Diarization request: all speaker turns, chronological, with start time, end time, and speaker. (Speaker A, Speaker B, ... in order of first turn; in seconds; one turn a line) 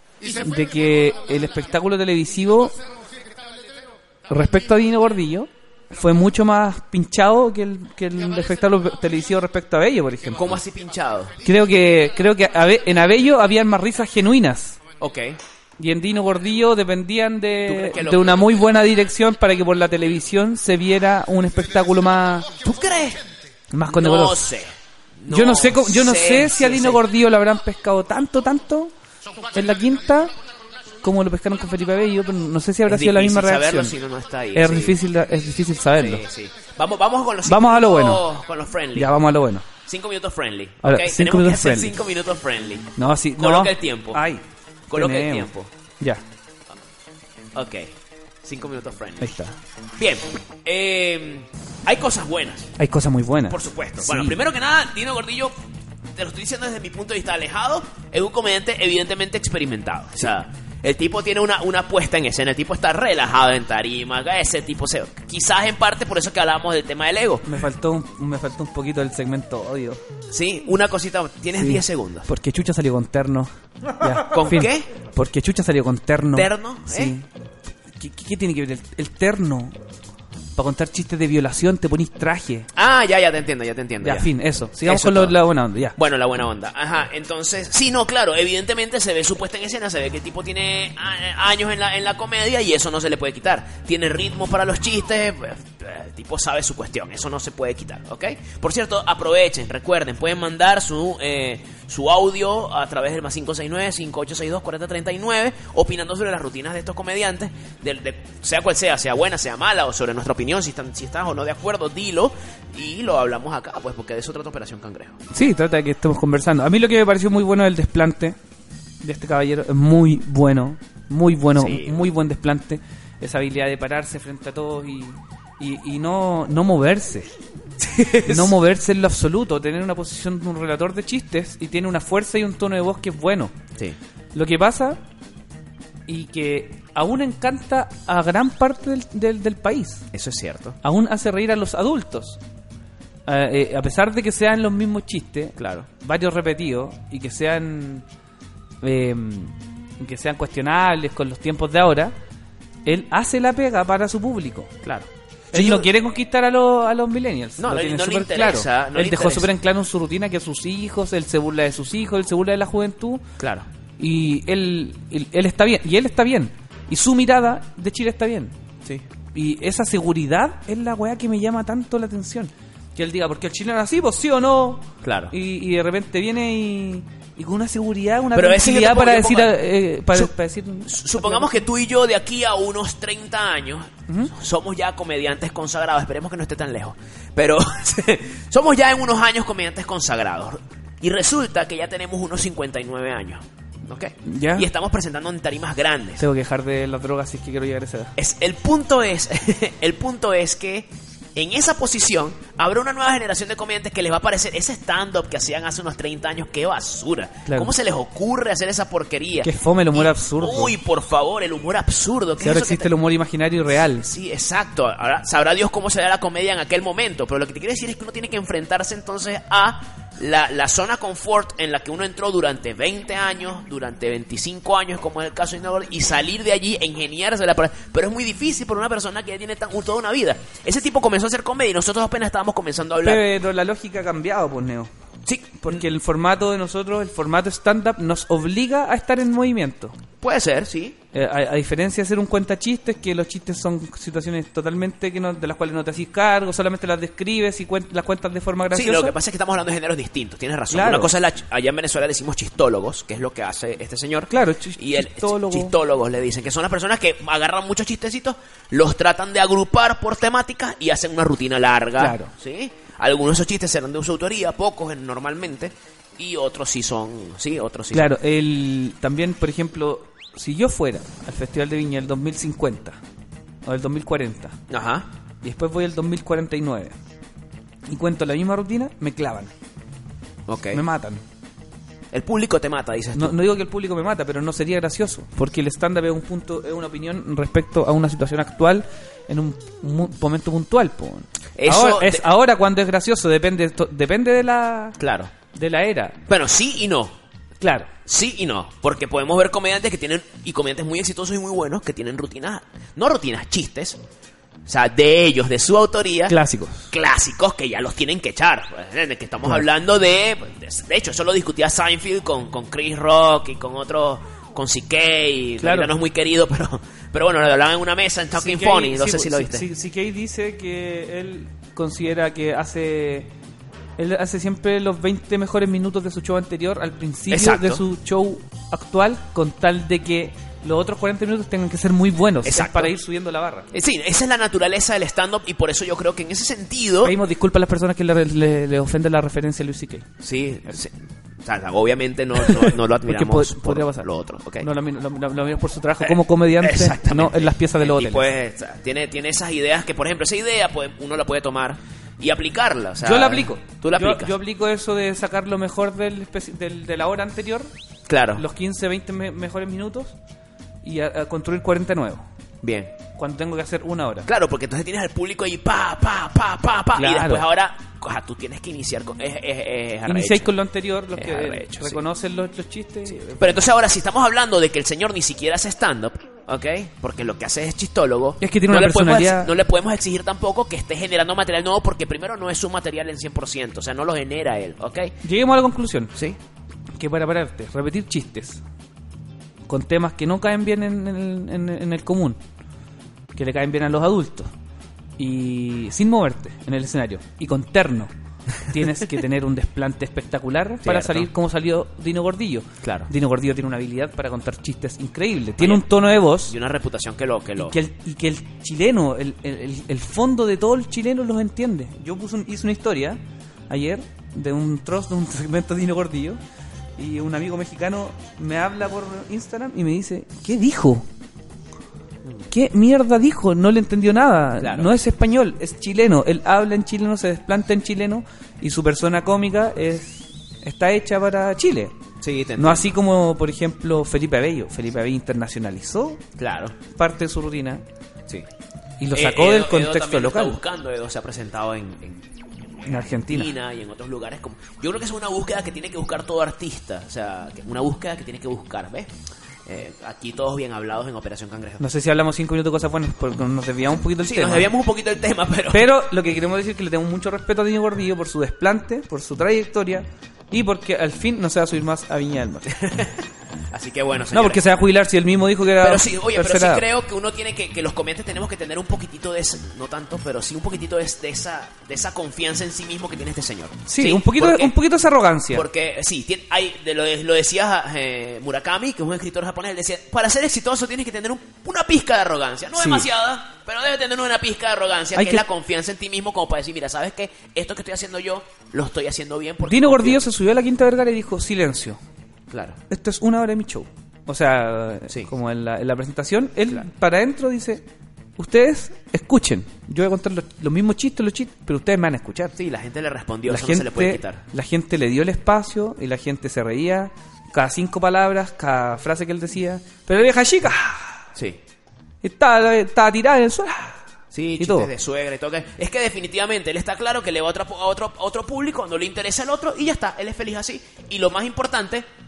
Speaker A: 0.3-2.7
Speaker A: 4.3-10.6
Speaker B: 10.4-11.3
Speaker A: 11.4-14.8
Speaker B: 15.0-15.4
Speaker A: 15.8-22.5
Speaker B: 17.6-18.5
Speaker B: 22.6-23.2
Speaker A: 23.7-24.4
Speaker B: 23.9-27.0
Speaker A: 25.3-28.9
Speaker A: 29.5-30.3
Speaker A: 31.0-33.9
Speaker B: 32.9-35.0
Speaker A: 34.5-36.2
Speaker B: 36.0-39.1
Speaker A: 37.5-38.2
Speaker A: 38.9-39.6
Speaker B: 39.9-44.2
Speaker A: 40.8-41.9
Speaker A: 43.0-44.4
Speaker B: 44.9-45.7
Speaker A: 44.9-46.2
Speaker B: 47.5-47.9
Speaker B: 48.4-49.3
Speaker A: 49.2-49.5
Speaker B: 50.0-52.7
Speaker A: 52.8-54.4
Speaker B: 53.5-55.5
Speaker B: 56.1-67.5
Speaker A: 67.4-70.0
Speaker B: 70.3-72.3
Speaker A: 71.6-77.2
Speaker B: 74.3-74.9
Speaker B: 76.3-77.1
Speaker A: 78.0-79.7
Speaker A: 80.6-82.7
Speaker B: 82.8-84.3
Speaker A: 84.0-86.0
Speaker B: 84.8-85.4
Speaker B: 86.0-115.2
Speaker A: 115.3-118.4
Speaker A: 119.0-127.3
Speaker B: 121.6-122.0
Speaker B: 127.8-128.5
Speaker A: 128.2-133.5
Speaker A: 134.3-135.0
Speaker A: 136.1-140.1
Speaker B: 140.1-140.8
Speaker A: 140.8-142.4
Speaker A: 143.3-148.1
Speaker B: 145.6-145.9
Speaker A: 148.8-152.1
Speaker A: 152.8-154.7
Speaker B: 154.8-155.9
Speaker A: 155.5-163.2
Speaker B: 157.6-159.5
Speaker B: 163.4-163.7
Speaker A: 164.0-168.6
Speaker A: 169.3-181.6
Speaker B: 175.0-175.3
Speaker B: 178.3-179.6
Speaker B: 180.9-196.2
Speaker A: 194.2-194.7
Speaker A: 196.2-198.1
Speaker B: 198.2-212.9
Speaker A: 207.4-207.7
Speaker A: 209.4-210.7
Speaker A: 212.4-214.1
Speaker B: 214.0-233.2
Speaker A: 233.0-234.9
Speaker B: 235.2-235.8
Speaker A: 235.6-240.0
Speaker B: 240.2-241.0
Speaker A: 241.1-249.1
Speaker B: 248.7-268.1
Speaker A: 250.7-251.1
Speaker A: 254.3-255.7
Speaker A: 262.0-262.3
Speaker A: 267.9-273.0
Speaker A: 273.6-274.6
Speaker B: 274.7-275.1
Speaker A: 275.4-276.9
Speaker A: 277.9-279.5
Speaker B: 280.5-280.8
Speaker A: 280.7-281.2
Speaker B: 282.1-283.4
Speaker A: 283.1-294.9
Speaker B: 291.6-292.2
Speaker B: 295.0-295.3
Speaker A: 295.5-296.2
Speaker B: 296.3-297.1
Speaker A: 297.6-297.9
Speaker B: 298.1-304.0
Speaker B: 304.6-306.4
Speaker A: 306.3-306.9
Speaker B: 306.9-319.7
Speaker A: 315.6-315.9
Speaker A: 318.4-323.3
Speaker A: 324.0-333.7
Speaker B: 327.3-327.8
Speaker B: 332.4-332.9
Speaker B: 333.7-337.1
Speaker A: 337.0-340.1
Speaker B: 340.2-344.7
Speaker A: 342.4-344.1
Speaker A: 344.6-348.3
Speaker B: 346.0-354.3
Speaker A: 353.0-357.7
Speaker B: 358.1-358.4
Speaker A: 358.4-360.1
Speaker A: 360.8-362.2
Speaker B: 362.6-362.9
Speaker A: 363.2-364.3
Speaker B: 364.3-370.5
Speaker A: 366.9-367.4
Speaker A: 370.1-373.6
Speaker B: 371.1-372.0
Speaker B: 373.1-385.1
Speaker A: 378.4-379.5
Speaker A: 385.2-386.1
Speaker A: 387.0-388.6
Speaker A: 389.7-392.4
Speaker A: 393.4-394.5
Speaker A: 395.2-398.1
Speaker A: 398.7-406.5
Speaker B: 400.9-401.3
Speaker B: 402.8-403.1
Speaker B: 405.6-407.8
Speaker A: 407.6-416.4
Speaker A: 417.0-421.1
Speaker A: 422.5-431.9
Speaker B: 424.6-424.9
Speaker B: 432.2-432.9
Speaker A: 432.6-436.2
Speaker B: 436.4-436.8
Speaker A: 436.9-437.8
Speaker A: 439.0-440.6
Speaker B: 439.1-442.3
Speaker B: 442.8-449.1
Speaker A: 442.9-443.5
Speaker B: 449.7-451.8
Speaker A: 451.8-454.7
Speaker B: 454.2-455.9
Speaker A: 455.7-462.7
Speaker B: 462.7-463.2
Speaker B: 463.7-464.6
Speaker A: 464.3-466.8
Speaker B: 465.8-474.7
Speaker A: 473.9-475.6
Speaker B: 475.5-490.2
Speaker A: 482.8-483.1
Speaker A: 485.1-485.4
Speaker A: 489.6-492.0
Speaker B: 492.5-492.8
Speaker A: 492.9-497.9
Speaker A: 498.4-502.5
Speaker B: 502.6-504.4
Speaker A: 503.5-511.2
Speaker A: 512.2-514.0
Speaker B: 514.3-522.1
Speaker A: 514.6-514.9